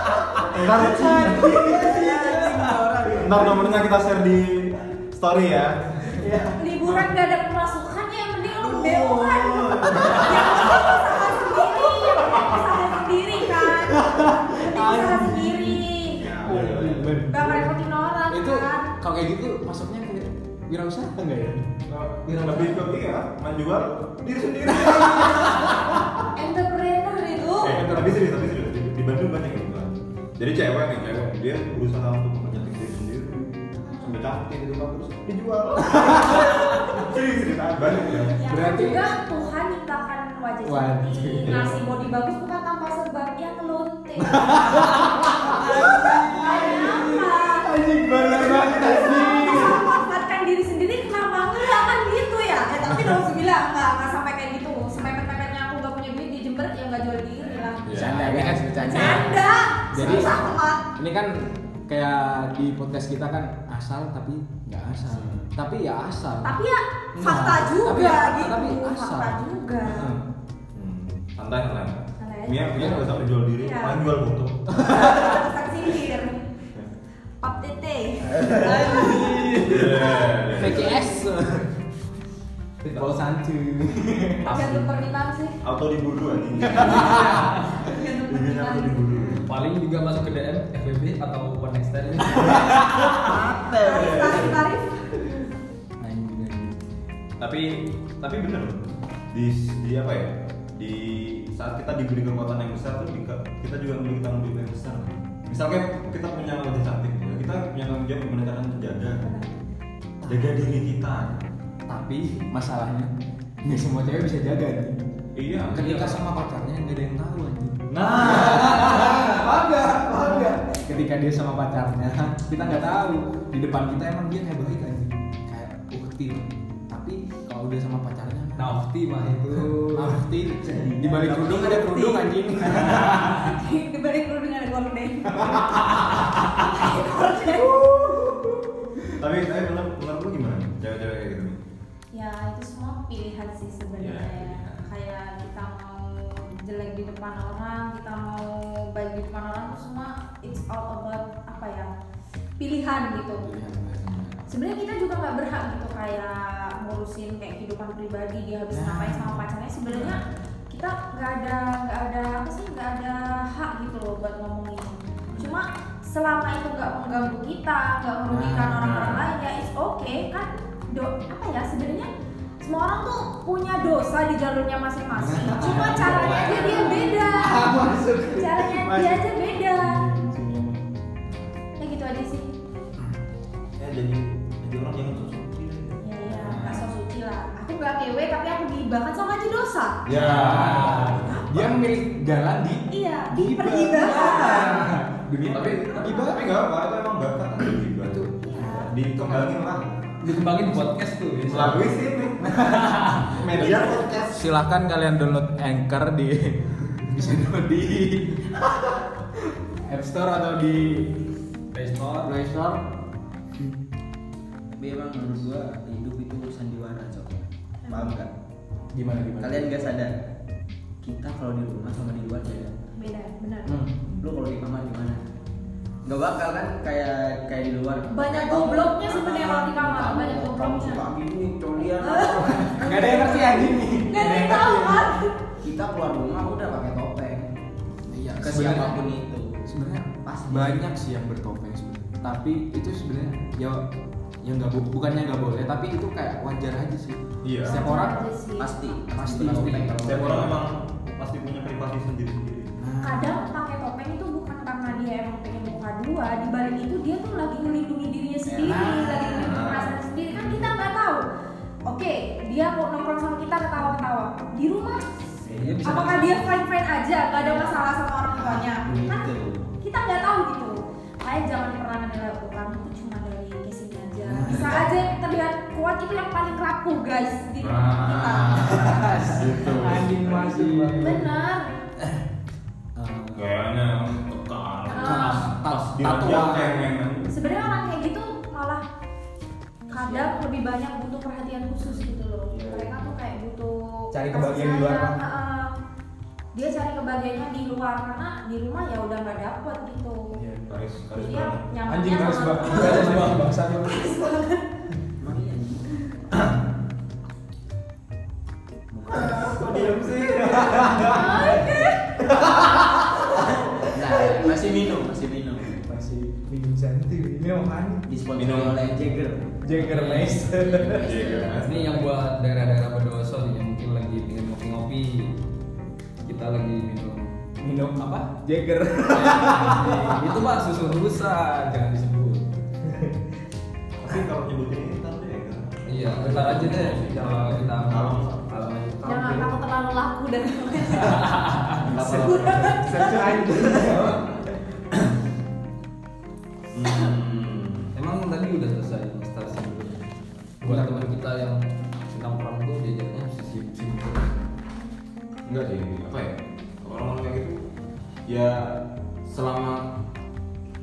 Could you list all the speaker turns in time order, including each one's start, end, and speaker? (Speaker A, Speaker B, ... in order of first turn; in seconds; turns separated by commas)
Speaker A: 0.2-2.7, Speaker B: 0.5-1.6, Speaker C: 0.7-3.5, Speaker B: 3.1-6.1, Speaker C: 6.2-6.6, Speaker D: 6.5-16.3, Speaker C: 8.5-10.2, Speaker A: 9.8-10.9, Speaker A: 11.6-12.7, Speaker A: 13.5-17.7, Speaker B: 16.1-17.2, Speaker D: 17.3-18.9, Speaker A: 18.3-21.7, Speaker B: 21.9-26.3, Speaker A: 22.2-22.8, Speaker A: 24.6-26.0, Speaker D: 26.3-27.8, Speaker B: 27.6-38.4, Speaker A: 27.6-28.3, Speaker D: 33.8-34.2, Speaker A: 35.8-36.8, Speaker D: 38.3-47.7, Speaker A: 38.3-39.1, Speaker A: 40.6-41.6, Speaker B: 41.4-41.9, Speaker A: 44.2-49.8, Speaker D: 48.3-57.9, Speaker B: 57.5-58.3, Speaker A: 57.9-59.3, Speaker C: 57.9-59.2, Speaker D: 58.5-60.8, Speaker A: 59.9-60.4, Speaker A: 60.9-66.6, Speaker D: 66.4-70.1, Speaker A: 67.1-70.2, Speaker B: 70.7-74.8, Speaker D: 72.2-73.0, Speaker A: 72.8-73.1, Speaker D: 73.6-74.0, Speaker A: 74.7-75.4, Speaker D: 74.7-76.4, Speaker D: 77.4-79.5, Speaker A: 78.3-81.7, Speaker E: 78.5-80.0, Speaker B: 79.5-81.1, Speaker A: 82.8-84.7, Speaker D: 84.4-85.6, Speaker E: 84.5-84.8, Speaker B: 85.6-89.5, Speaker A: 86.6-87.6, Speaker D: 86.8-89.4, Speaker E: 89.4-93.1, Speaker A: 92.3-93.1, Speaker C: 93.1-94.5, Speaker D: 93.8-95.1, Speaker B: 93.9-94.6, Speaker A: 96.0-96.7, Speaker B: 97.4-109.3, Speaker D: 109.2-109.8, Speaker B: 110.2-111.5, Speaker A: 110.2-110.7, Speaker A: 111.9-115.0, Speaker B: 115.3-116.2, Speaker A: 115.7-128.7, Speaker B: 117.9-119.4, Speaker E: 128.6-130.2, Speaker A: 129.5-133.6, Speaker C: 130.6-132.3, Speaker E: 132.9-133.2, Speaker D: 133.2-137.7, Speaker A: 135.3-136.5, Speaker A: 137.5-139.1, Speaker B: 139.2-141.6, Speaker D: 142.1-151.9, Speaker B: 144.0-144.9, Speaker D: 152.6-153.5, Speaker A: 153.4-154.4, Speaker D: 154.5-177.7, Speaker A: 158.7-159.4, Speaker B: 159.9-160.2, Speaker A: 168.3-168.8, Speaker B: 168.8-169.3, Speaker A: 175.1-180.8, Speaker E: 176.0-176.8, Speaker D: 178.3-180.0, Speaker B: 181.3-181.5, Speaker D: 181.8-182.5, Speaker B: 183.8-186.9, Speaker D: 186.0-190.0, Speaker B: 190.0-191.7, Speaker A: 190.1-196.5, Speaker E: 190.2-191.3, Speaker D: 192.9-194.9, Speaker B: 195.4-199.8, Speaker A: 198.0-199.5, Speaker D: 198.4-198.9, Speaker E: 200.2-202.0, Speaker B: 201.5-202.6, Speaker A: 202.4-202.9, Speaker E: 202.5-203.4, Speaker B: 203.2-204.5, Speaker D: 203.5-204.1, Speaker A: 204.3-211.2, Speaker E: 211.7-212.3, Speaker A: 212.2-212.8, Speaker C: 214.7-218.3, Speaker D: 217.8-218.2, Speaker A: 218.9-219.8, Speaker C: 219.4-220.1, Speaker C: 221.0-222.7, Speaker D: 222.9-223.7, Speaker A: 223.6-223.9, Speaker C: 224.0-225.2, Speaker C: 226.0-233.5, Speaker D: 228.1-231.1, Speaker D: 231.8-235.3, Speaker A: 232.4-235.1, Speaker C: 235.6-237.5, Speaker A: 238.1-239.0, Speaker C: 238.3-239.5, Speaker A: 239.7-243.8, Speaker C: 240.2-240.8, Speaker A: 244.4-248.2, Speaker B: 247.4-247.9, Speaker D: 247.6-248.8, Speaker C: 248.6-250.3, Speaker A: 249.2-250.5, Speaker E: 249.3-250.5, Speaker B: 250.0-252.7, Speaker A: 252.8-253.5, Speaker D: 253.0-261.2, Speaker C: 258.5-258.9, Speaker A: 258.6-259.5, Speaker B: 259.4-260.0, Speaker D: 261.9-265.1, Speaker C: 265.4-266.0, Speaker E: 265.5-266.5, Speaker D: 265.8-269.3, Speaker C: 267.4-267.8, Speaker C: 268.4-269.7, Speaker D: 269.8-279.0, Speaker A: 274.2-275.0, Speaker B: 277.6-280.5, Speaker A: 278.6-281.3, Speaker E: 280.4-281.2, Speaker D: 281.0-281.7, Speaker A: 282.9-283.5, Speaker B: 283.3-287.3, Speaker D: 284.9-285.5, Speaker A: 284.9-286.9, Speaker D: 287.3-288.8, Speaker D: 289.9-295.8, Speaker C: 289.9-290.4, Speaker C: 291.8-292.8, Speaker A: 294.1-295.2, Speaker D: 296.5-300.3, Speaker A: 300.3-300.9, Speaker B: 300.7-301.6, Speaker D: 301.1-304.6, Speaker A: 301.9-304.3, Speaker E: 302.6-303.6, Speaker C: 305.2-306.1, Speaker C: 308.9-309.7, Speaker B: 309.1-311.6, Speaker A: 309.2-314.1, Speaker D: 311.0-312.0, Speaker C: 312.4-312.7, Speaker C: 313.9-315.8, Speaker D: 314.1-314.7, Speaker A: 315.8-318.0, Speaker C: 318.1-319.6, Speaker B: 318.3-318.9, Speaker A: 319.6-321.1, Speaker E: 319.7-320.5, Speaker C: 320.6-321.6, Speaker B: 321.0-322.1, Speaker E: 321.6-325.3, Speaker E: 326.2-327.3, Speaker A: 327.6-330.5, Speaker E: 329.1-332.5, Speaker A: 332.8-333.2, Speaker B: 334.0-338.4, Speaker E: 335.9-339.5, Speaker A: 336.1-338.0, Speaker D: 339.0-341.4, Speaker E: 341.0-341.9, Speaker B: 341.8-342.8, Speaker A: 341.9-344.5, Speaker D: 342.0-343.9, Speaker B: 346.7-347.9, Speaker E: 347.9-350.0, Speaker E: 350.6-354.3, Speaker A: 350.6-351.1, Speaker B: 355.4-357.6, Speaker B: 358.3-359.9